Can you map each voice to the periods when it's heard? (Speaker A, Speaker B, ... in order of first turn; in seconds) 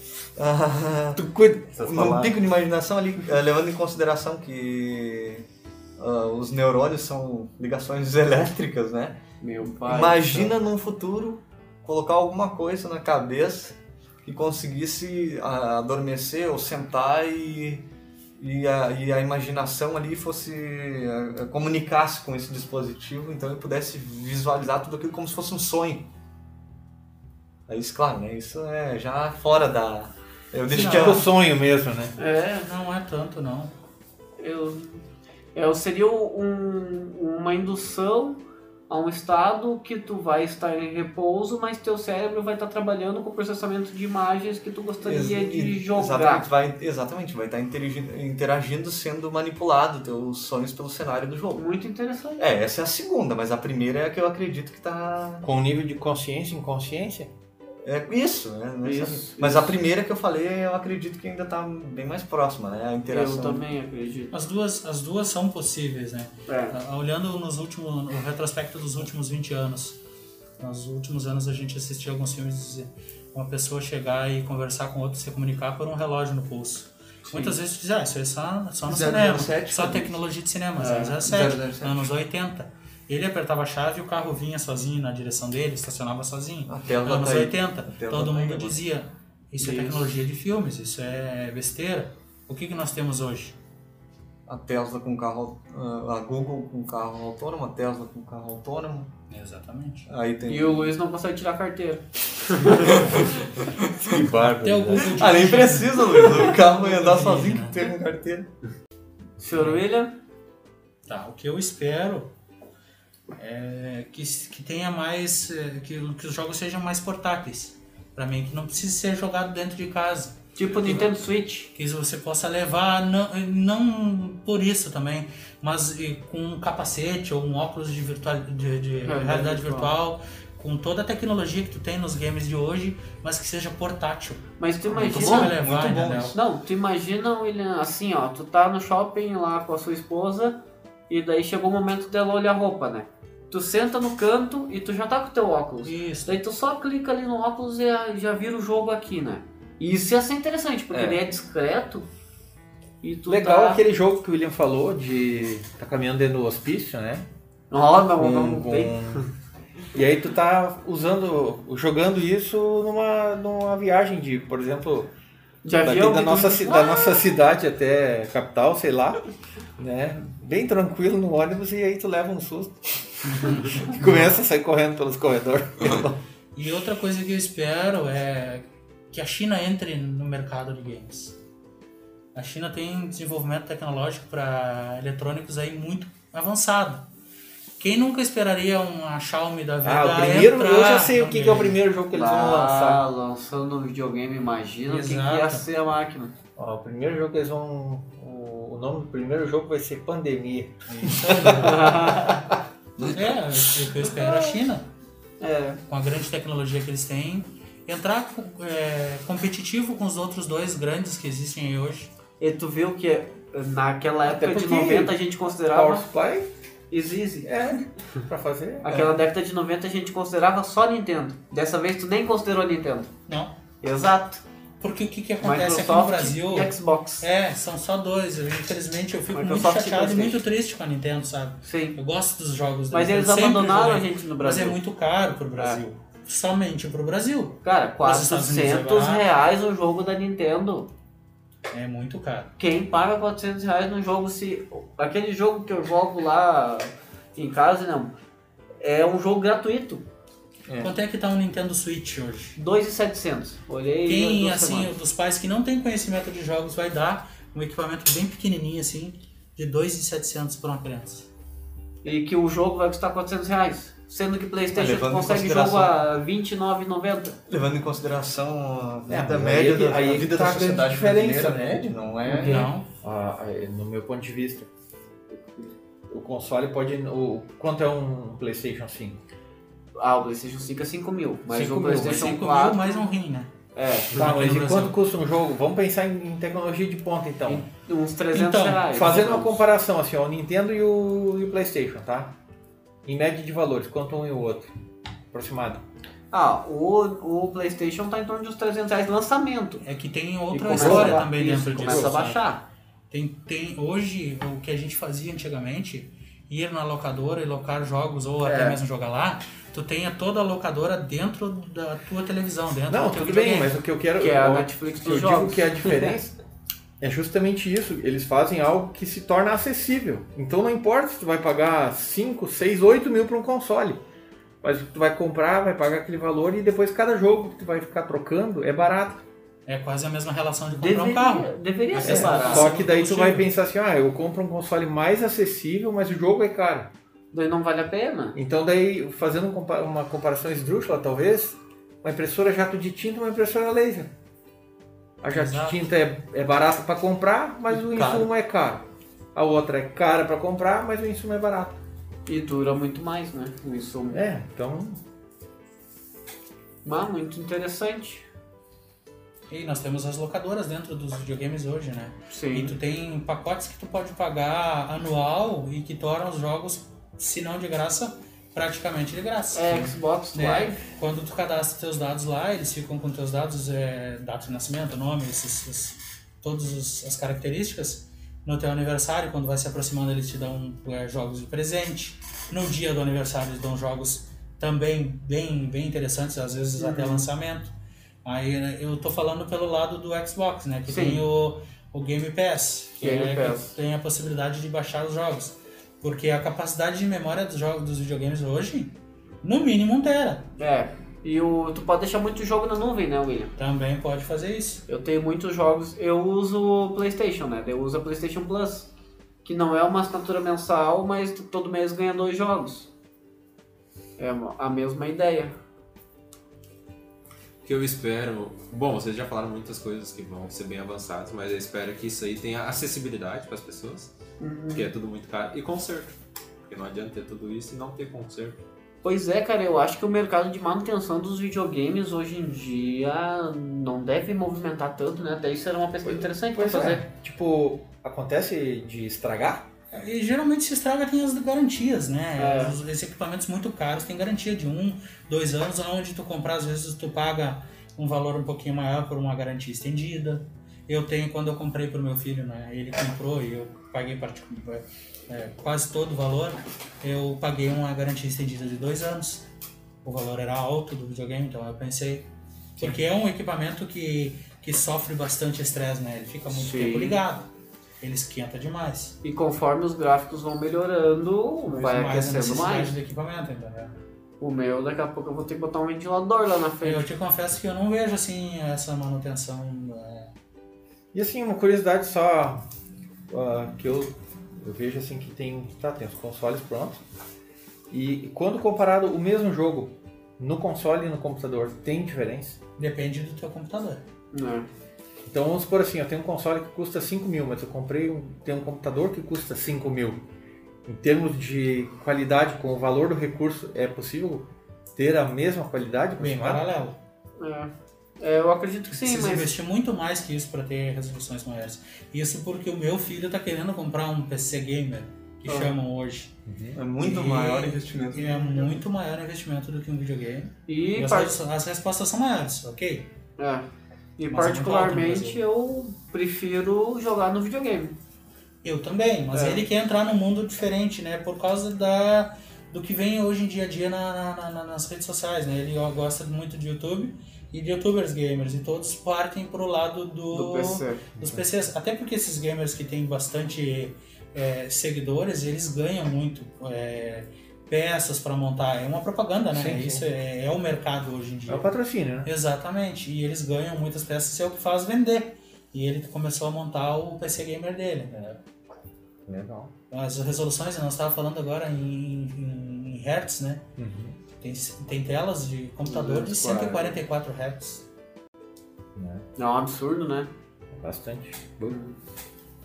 Speaker A: 0.3-1.2, 1.8-5.4, 6.0-9.2, 9.8-17.8, 18.4-26.1, 27.7-31.2, 45.0-51.6, 52.4-55.5, 57.8-63.6, 78.9-80.1, 81.2-82.1, 86.7-88.8, 94.5-99.1, 100.1-100.9, 102.7-108.5, 134.9-136.3, 150.9-151.2, 201.0-201.6, 203.0-203.3, 218.9-219.2, 264.7-265.9, 267.5-272.7, 347.8-348.3, 516.7-518.8
Speaker B: 1.1-2.4, 30.7-32.1, 55.4-57.3, 104.0-105.1, 153.3-157.2, 158.2-159.3, 159.9-165.1, 165.8-169.2, 169.8-176.2, 189.8-193.0, 196.6-202.1, 214.2-215.2, 215.7-216.5, 217.4-218.9, 269.1-271.9, 273.0-274.7, 276.1-279.2, 281.5-282.3, 284.1-287.6, 288.9-292.4, 293.0-294.7, 295.3-295.8, 300.7-302.2, 312.9-316.3, 317.0-324.0, 324.6-329.2, 332.0-336.9, 338.3-344.1, 345.2-351.8, 354.1-355.0, 436.0-439.7, 481.1-482.6, 483.3-487.0, 487.9-492.6, 495.2-500.2, 500.8-506.6, 516.5-516.8, 541.2-541.4, 549.5-550.0, 551.5-552.3, 558.1-558.4, 559.3-559.7, 563.8-564.1, 569.0-569.2, 570.7-571.8
Speaker C: 9.4-10.5, 32.2-32.7, 34.4-35.0, 35.5-38.4, 38.9-46.5, 51.5-52.5, 58.8-59.8, 63.1-64.3, 66.5-66.8, 80.8-81.2, 89.6-90.1, 100.5-103.3, 109.4-110.1, 120.5-121.7, 129.0-129.9, 134.6-135.6, 136.3-152.0, 153.0-153.8, 157.7-158.9, 165.6-167.2, 192.1-196.3, 201.6-202.4, 204.1-204.5, 205.4-205.8, 212.4-216.1, 216.9-217.5, 218.8-223.1, 223.8-224.4, 225.4-227.2, 229.3-230.4, 231.6-232.0, 232.9-234.8, 237.6-240.9, 242.6-248.1, 248.8-250.0, 252.6-254.9, 262.0-267.4, 272.2-272.7, 280.0-283.1, 283.7-284.2, 287.4-289.6, 296.3-299.8, 300.5-302.6, 308.4-308.8, 314.2-316.1, 330.7-332.8, 337.3-338.4, 352.2-354.2, 356.8-358.3, 362.3-362.8, 369.5-370.9, 386.8-387.3, 390.9-391.2, 393.0-393.7, 400.6-403.5, 404.9-408.9, 409.4-412.9, 414.2-415.5, 424.4-424.9, 429.0-437.0, 442.4-442.7, 466.5-467.2, 469.2-472.9, 474.4-477.1, 494.3-494.7, 507.4-509.5, 520.7-521.4, 523.4-523.6, 524.2-528.0, 529.3-529.6, 540.3-541.0, 565.9-567.0, 569.4-570.3, 571.7-571.9
Speaker D: 30.7-31.2, 32.6-33.7, 64.3-70.0, 70.6-93.5, 99.3-100.1, 104.4-107.8, 109.5-109.8, 111.1-112.3, 113.3-121.1, 121.7-136.3, 145.8-146.3, 173.2-174.0, 176.5-181.3, 182.3-187.0, 187.8-191.8, 194.9-195.6, 201.1-202.0, 203.0-204.8, 205.9-212.1, 223.3-223.5, 224.8-239.2, 241.7-242.5, 250.8-252.6, 254.1-261.3, 272.4-272.8, 281.5-283.5, 284.1-284.9, 288.3-288.9, 299.8-302.5, 303.1-313.8, 329.6-333.5, 345.3-345.9, 359.5-387.7, 388.2-400.5, 403.6-404.8, 439.9-459.4, 460.0-467.5, 468.0-469.1, 471.7-473.9, 476.8-480.3, 492.8-494.0, 506.2-507.0, 508.9-516.3, 517.0-523.1, 524.3-525.4, 528.6-558.2, 559.9-563.6, 564.4-567.8
Speaker E: 417.6-424.1, 424.7-426.1, 426.7-428.6